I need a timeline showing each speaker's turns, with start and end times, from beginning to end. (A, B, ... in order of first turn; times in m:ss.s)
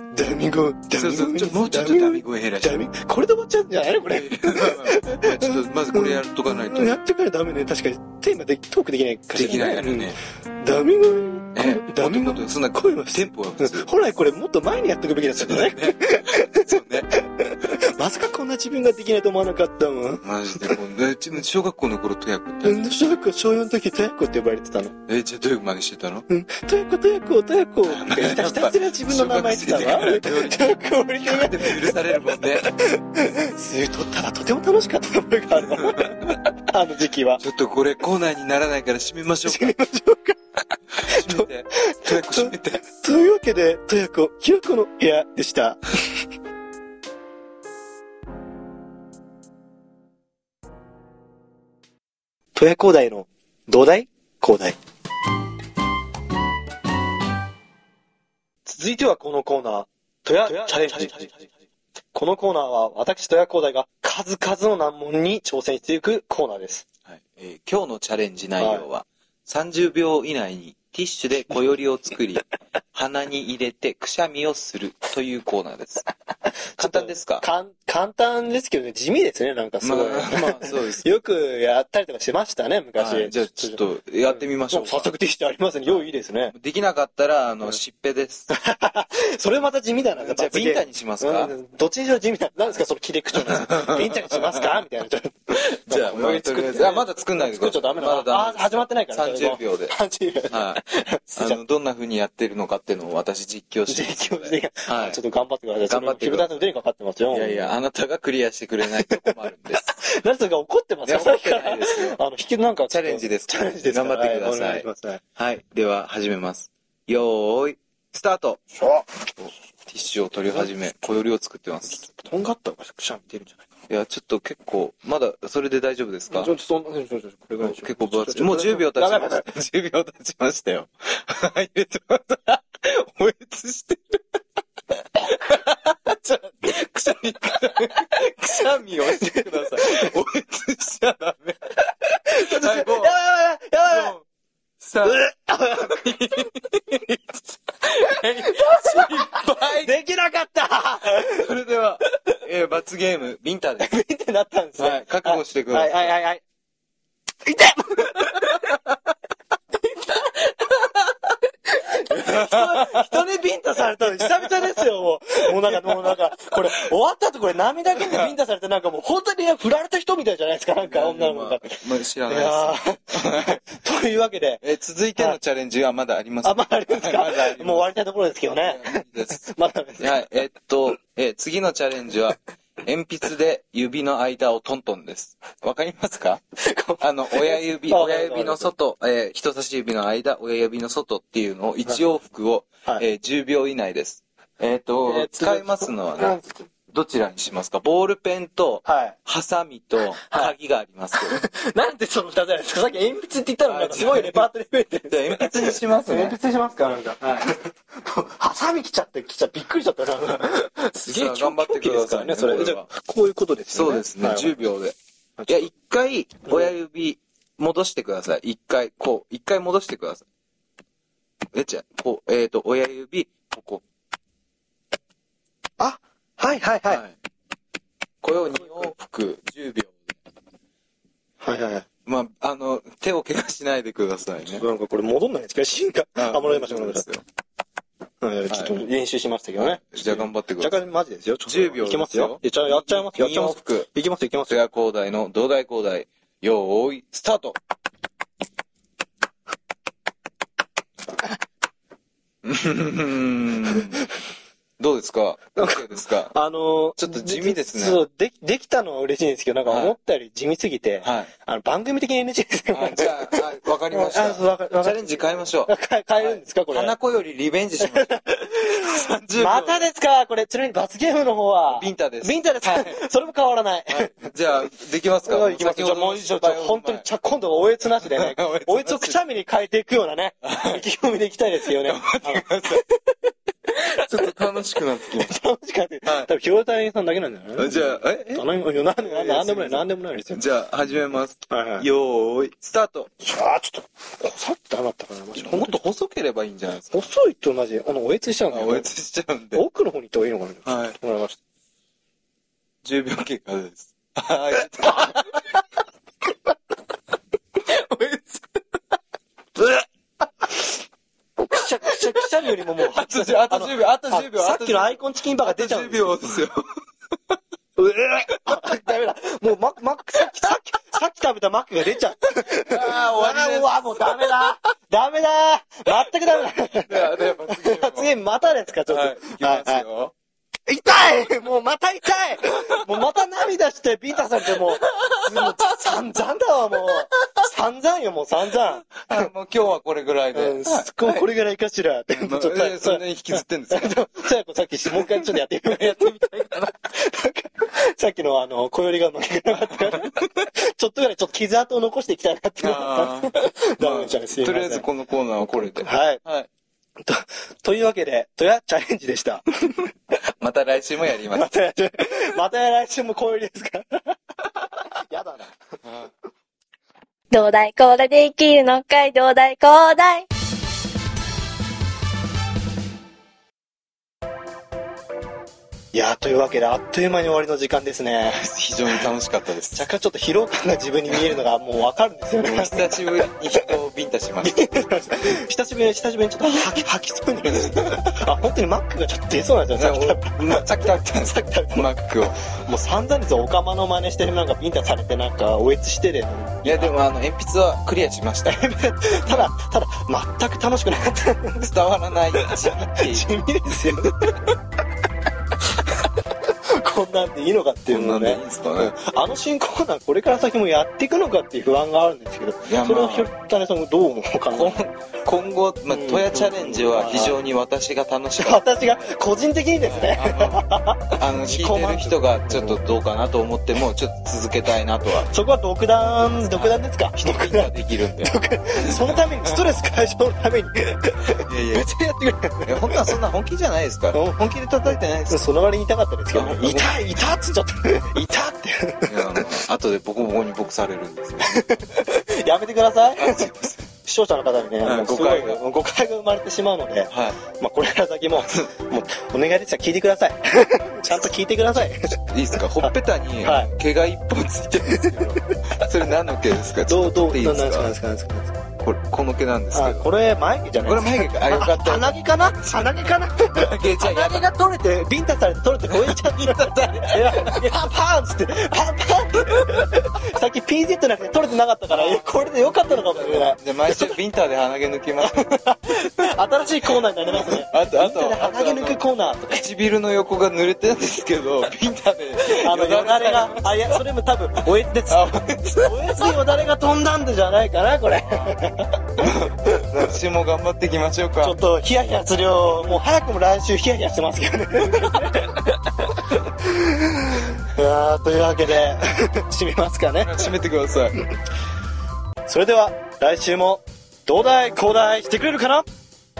0:00.1-0:20.6 A
0:00.9-0:02.9 B
0:04.1-0:07.0 B
0:09.3-0:10.2 B
0:11.6-0:13.9 B
0:15.4-0:17.1 B
0:20.2-0:23.0 B
0:22.6-0:25.0 A
0:25.1-0:26.3 B
0:26.3-0:37.4 A
0:27.9-0:32.7 B
0:35.6-0:36.3 B
0:37.4-0:39.8 B
0:39.5-0:40.4 A
0:41.0-0:42.9 B
0:41.0-0:45.8 A
0:52.6-0:54.8 A
0:58.7-1:01.4 A
1:00.4-1:01.4 B
1:02.1-1:06.8 A
1:07.1-1:16.1 B
1:08.6-1:08.8 A
1:16.8-1:17.4 B
1:16.8-1:26.5 A
1:19.8-1:21.2 B
1:23.0-1:25.1 B
1:26.5-1:28.5 B
1:28.5-1:41.6 A
1:30.2-1:31.5 B
1:33.5-1:34.6 B
1:35.9-1:40.0 B
1:40.5-1:40.8 B
1:41.4-1:45.2 B
1:43.9-1:47.8 A
1:45.9-1:46.6 B
1:47.3-1:50.0 B
1:49.0-1:49.3 A
1:50.0-1:55.2 A
1:51.0-1:52.2 B
1:52.9-1:58.6 B
1:58.8-1:59.1 A
1:59.4-2:02.1 B
2:02.0-2:03.7 A
2:03.9-2:06.5 B
2:06.3-2:09.5 A
2:07.6-2:14.2 B
2:15.2-2:21.7 B
2:19.1-2:20.1 A
2:22.3-2:24.2 A
2:22.3-2:23.2 B
2:23.8-2:24.2 B
2:24.8-2:29.9 B
2:25.0-2:26.5 A
2:28.4-2:31.5 A
2:31.2-2:33.9 B
2:33.8-2:36.4 A
2:34.8-2:36.1 B
2:37.5-2:38.8 A
2:39.9-2:40.9 A
2:41.7-2:54.6 A
2:42.1-2:43.0 B
2:44.2-2:44.7 B
2:45.6-2:46.1 B
2:48.0-2:48.3 B
2:50.8-2:53.6 B
2:54.6-2:57.9 B
2:56.4-3:00.2 A
2:58.6-2:59.4 B
3:00.0-3:06.4 B
3:06.6-3:08.7 A
3:07.0-3:21.4 B
3:15.1-3:16.5 A
3:18.8-3:19.2 A
3:20.3-3:20.5 A
3:21.1-3:34.7 A
3:23.7-3:24.5 B
3:25.1-3:26.4 B
3:31.0-3:32.9 B
3:33.7-3:35.0 B
3:35.4-3:35.7 A
3:35.5-3:40.2 B
3:36.5-3:36.7 A
3:41.5-3:43.8 B
3:45.8-3:47.0 A
3:46.9-3:47.2 B
3:48.2-3:50.2 B
3:51.4-3:51.9 A
3:52.1-3:54.6 B
3:54.5-3:57.1 A
3:56.2-3:57.2 B
3:58.2-4:04.6 A
3:58.5-3:58.8 B
3:59.6-4:00.8 B
4:01.4-4:03.9 B
4:04.5-4:07.6 B
4:12.4-4:14.0 B
4:14.8-4:16.3 B
4:15.6-4:27.0 A
4:17.0-4:18.0 B
4:19.7-4:20.0 B
4:21.0-4:21.3 B
4:22.7-4:29.9 B
4:27.8-4:34.3 A
4:31.7-4:33.0 B
4:33.9-4:37.1 B
4:35.3-4:42.9 A
4:38.0-4:39.2 B
4:40.4-4:40.8 B
4:41.6-4:42.8 B
4:43.8-4:44.3 A
4:43.9-4:45.4 B
4:45.1-4:50.4 A
4:46.0-4:46.3 B
4:47.6-4:48.5 B
4:49.0-4:53.1 B
4:51.5-4:51.9 A
4:53.2-4:55.8 A
4:55.4-4:57.1 B
4:56.9-4:58.9 A
4:58.5-4:59.6 B
4:59.5-5:01.4 A
5:00.7-5:01.0 B
5:02.8-5:05.6 B
5:07.7-5:08.2 B
5:09.6-5:09.8 A
5:11.4-5:16.4 A
5:11.9-5:16.6 B
5:17.8-5:29.9 A
5:22.5-5:24.4 B
5:26.8-5:28.1 B
5:28.9-5:30.1 B
5:30.7-5:39.3 A
5:32.7-5:33.0 B
5:34.6-5:35.6 B
5:38.6-5:41.3 B
5:40.3-5:54.9 A
5:42.1-5:44.0 B
5:44.9-5:46.7 B
5:49.6-5:50.3 B
5:52.6-5:56.5 B
5:55.8-5:56.2 A
5:57.0-5:59.4 A
6:00.4-6:01.5 B
6:01.3-6:04.2 A
6:04.9-6:05.5 A
6:07.3-6:10.3 C
6:15.9-6:18.4 A
6:18.3-6:19.9 B
6:19.8-6:23.3 A
6:22.4-6:24.6 B
6:24.4-6:31.9 A
6:27.6-6:27.8 B
6:29.8-6:32.4 B
6:32.5-6:36.9 A
6:36.6-6:39.5 B
6:38.5-6:41.7 A
6:41.6-6:43.3 B
6:42.4-6:44.4 A
6:46.6-6:54.8 A
6:47.9-6:48.9 B
6:52.6-6:53.3 B
6:54.5-6:59.1 B
6:55.9-6:57.4 A
6:58.4-7:02.8 A
6:59.8-7:05.3 B
7:05.3-7:13.1 A
7:06.5-7:09.6 B
7:11.4-7:11.9 B
7:12.6-7:15.5 B
7:14.1-7:14.4 A
7:15.3-7:19.5 A
7:16.3-7:17.0 B
7:19.1-7:21.6 B
7:21.5-7:32.2 A
7:23.2-7:23.9 B
7:24.8-7:25.6 B
7:27.1-7:27.4 B
7:32.1-7:37.9 B
7:32.8-7:33.7 A
7:35.0-7:35.5 A
7:36.9-7:38.6 A
7:38.8-7:40.1 B
7:39.7-7:53.6 A
7:40.8-7:44.5 B
7:45.9-7:47.7 B
7:49.5-7:49.8 B
7:51.9-7:55.5 B
7:55.2-7:59.6 A
7:57.3-8:04.0 B
8:02.5-8:09.9 A
8:05.1-8:06.4 B
8:08.2-8:08.6 B
8:09.2-8:11.6 B
8:11.4-8:20.5 A
8:14.9-8:15.4 B
8:20.2-8:21.2 B
8:22.5-8:25.9 A